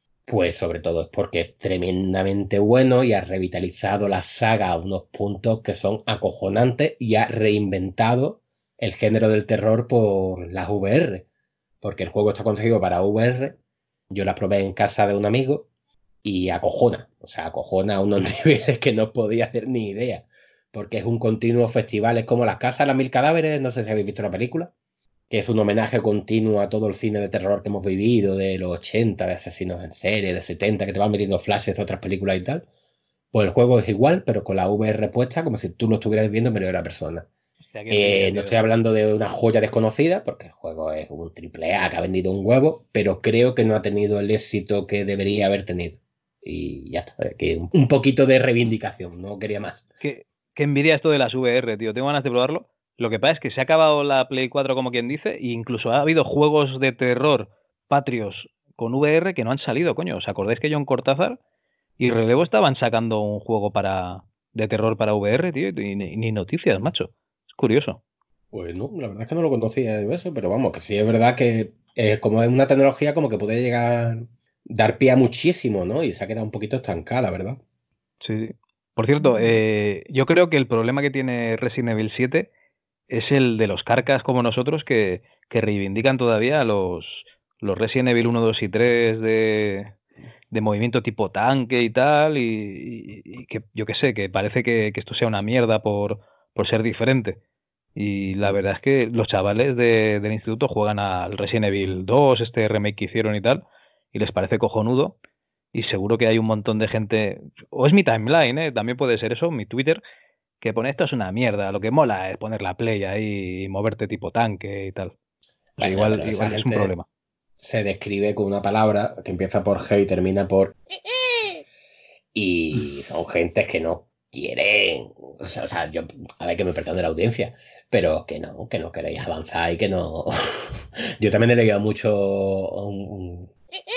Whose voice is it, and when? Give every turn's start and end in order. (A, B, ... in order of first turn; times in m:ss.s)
0:00.3-0:11.2 A
0:11.8-0:13.6 A
0:14.1-0:15.7 A
0:16.2-0:24.7 A
0:25.3-0:32.6 A
0:33.3-0:37.3 A
0:37.7-0:38.6 B
0:37.9-0:49.8 A
0:50.0-1:01.4 B
1:02.0-1:08.0 B
1:08.5-1:17.6 A
1:18.2-1:22.5 B
1:23.1-1:29.9 B
1:30.5-1:37.4 B
1:38.0-1:43.6 B
1:44.1-1:45.1 B
1:45.7-1:50.0 B
1:50.6-1:55.1 B
1:55.8-1:56.9 A
1:55.8-1:57.0 B
1:57.6-2:00.7 A
2:02.3-2:13.5 A